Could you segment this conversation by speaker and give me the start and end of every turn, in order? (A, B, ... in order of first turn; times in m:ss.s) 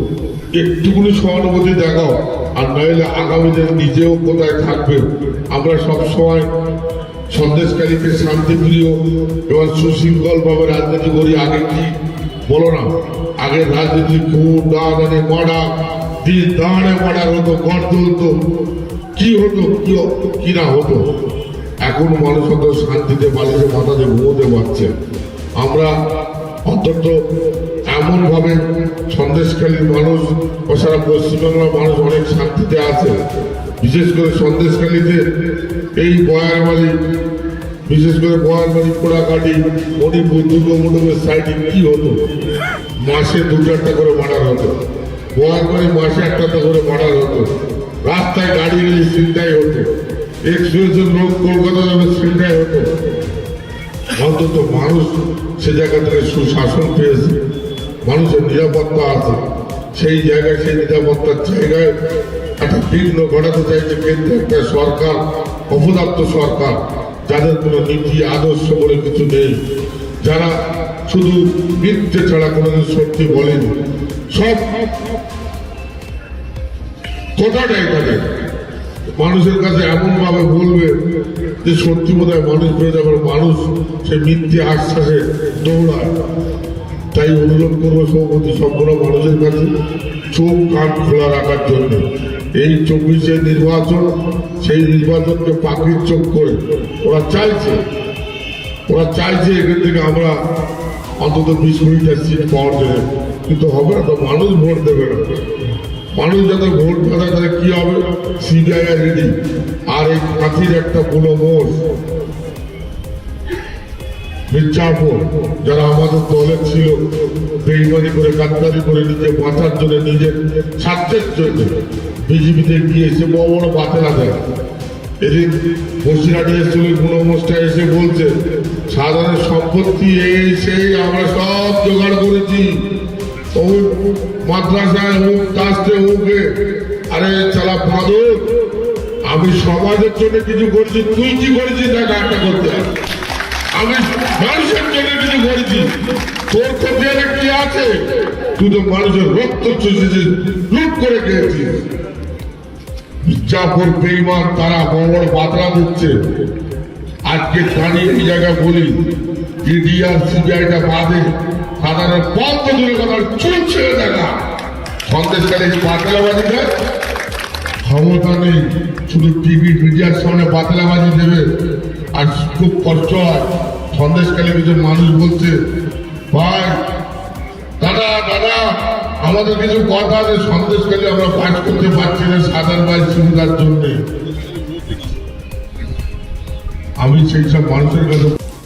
0:00.5-0:06.5 A
0:07.3-0:11.9 A
0:12.5-0:15.7 A
0:16.2-0:18.4 A
0:19.2-0:21.0 A
0:21.8-0:24.9 A
0:25.6-0:25.9 A
0:26.7-0:27.2 A
0:27.9-0:33.2 A
0:33.8-0:35.2 A
0:36.0-0:36.9 A
0:37.9-0:42.2 A
0:43.0-0:44.7 A
0:45.4-0:47.5 A
0:48.0-0:49.9 A
0:50.5-0:52.9 A
0:54.2-0:57.4 A
0:58.0-0:59.4 A
0:59.9-1:01.9 A
1:02.6-1:09.6 A
1:10.2-1:10.6 A
1:11.1-1:13.8 A
1:14.3-1:14.9 A
1:17.4-1:18.2 A
1:19.2-1:21.0 A
1:21.6-1:26.1 A
1:27.1-1:29.7 A
1:30.3-1:32.0 A
1:32.6-1:37.8 A
1:38.9-1:40.4 A
1:41.2-1:45.4 A
1:46.1-1:49.3 A
1:49.9-1:51.7 A
1:54.5-1:57.0 A
1:57.6-2:01.7 A
2:02.2-2:04.4 A
2:05.2-2:08.3 A
2:08.9-2:12.8 A
2:13.5-2:16.5 A
2:17.1-2:18.4 A
2:19.2-2:22.9 A
2:23.7-2:25.9 A
2:26.5-2:31.8 A
2:33.2-2:36.2 A
2:37.2-2:39.0 A
2:39.6-2:44.4 A
2:45.0-2:46.7 A
2:47.8-2:51.5 A
2:52.1-2:55.6 A
2:56.3-2:56.8 A
2:57.8-3:04.0 A
3:07.0-3:08.4 A